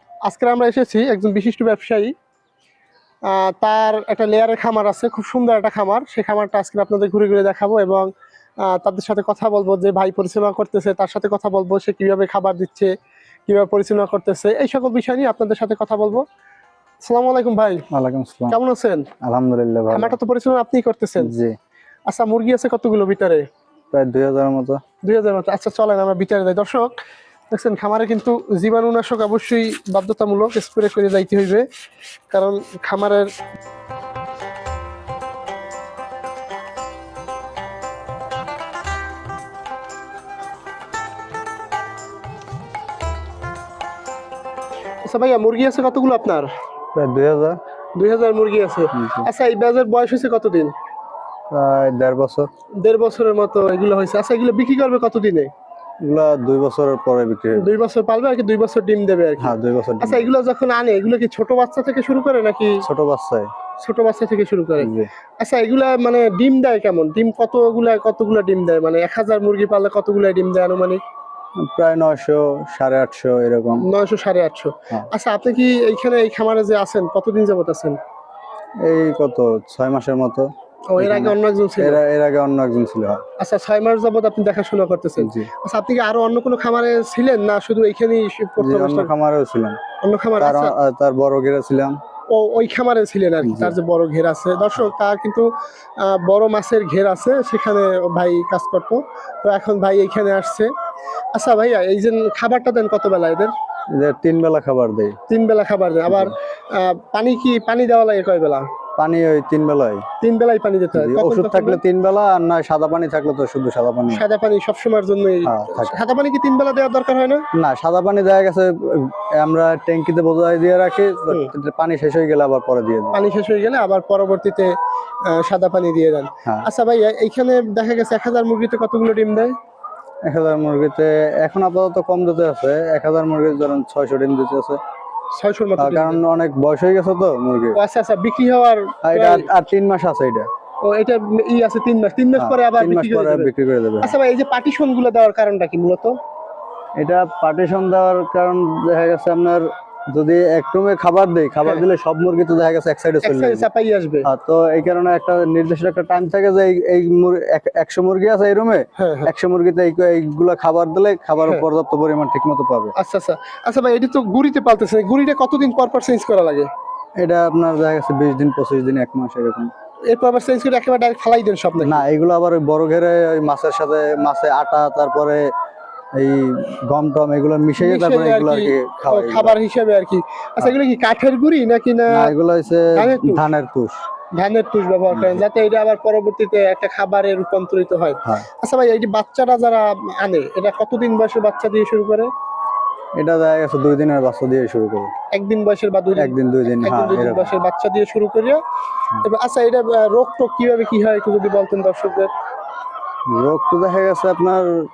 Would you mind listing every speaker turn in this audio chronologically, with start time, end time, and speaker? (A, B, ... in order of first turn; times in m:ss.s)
0:00.2-0:02.1 A
0:03.3-0:08.1 A
0:08.6-0:12.9 A
0:13.5-0:16.2 A
0:17.0-0:17.8 A
0:17.9-0:18.6 B
0:18.5-0:19.1 A
0:19.2-0:20.2 B
0:19.9-0:21.3 A
0:21.2-0:21.5 B
0:22.1-0:23.4 A
0:23.9-0:24.8 B
0:25.0-0:26.9 A
0:27.5-0:31.6 A
0:32.3-0:33.3 A
0:45.0-0:46.5 A
0:46.9-0:47.6 B
0:48.0-0:50.7 A
0:48.9-0:49.3 B
0:51.5-0:52.5 B
0:52.8-0:55.5 A
0:56.0-0:57.7 B
0:57.5-1:02.8 A
0:59.4-1:00.3 B
1:02.8-1:03.5 B
1:03.8-1:11.0 A
1:04.8-1:05.1 B
1:11.7-1:13.8 B
1:13.8-1:18.0 A
1:18.8-1:23.2 B
1:20.9-1:22.0 A
1:23.4-1:29.1 A
1:25.2-1:25.5 B
1:28.6-1:29.8 B
1:30.0-1:30.7 A
1:30.4-1:32.0 B
1:32.3-1:35.5 A
1:33.4-1:33.8 B
1:36.0-1:40.7 A
1:41.3-1:43.5 A
1:43.9-1:45.2 B
1:45.3-1:48.6 A
1:46.1-1:46.3 B
1:49.0-1:50.0 B
1:50.2-1:51.8 A
1:50.9-1:54.2 B
1:54.1-1:57.4 A
1:55.4-1:55.9 B
1:57.5-2:03.2 B
2:03.1-2:04.7 A
2:05.3-2:09.5 A
2:10.2-2:14.8 B
2:15.3-2:16.2 A
2:15.8-2:17.8 B
2:17.7-2:19.5 A
2:19.0-2:20.5 B
2:20.8-2:23.5 A
2:22.4-2:24.1 B
2:24.0-2:26.1 A
2:27.0-2:33.6 B
2:33.2-2:34.3 A
2:34.2-2:42.9 B
2:39.0-2:39.3 A
2:43.0-2:46.7 A
2:47.2-2:49.7 B
2:50.1-2:52.0 A
2:51.8-2:55.5 B
2:56.2-2:59.6 B
2:57.8-3:02.3 A
3:02.1-3:04.0 B
3:02.9-3:03.4 A
3:04.4-3:12.3 A
3:05.1-3:05.4 B
3:13.2-3:15.1 B
3:15.3-3:18.6 A
3:16.2-3:17.5 B
3:19.2-3:22.3 A
3:23.3-3:24.7 B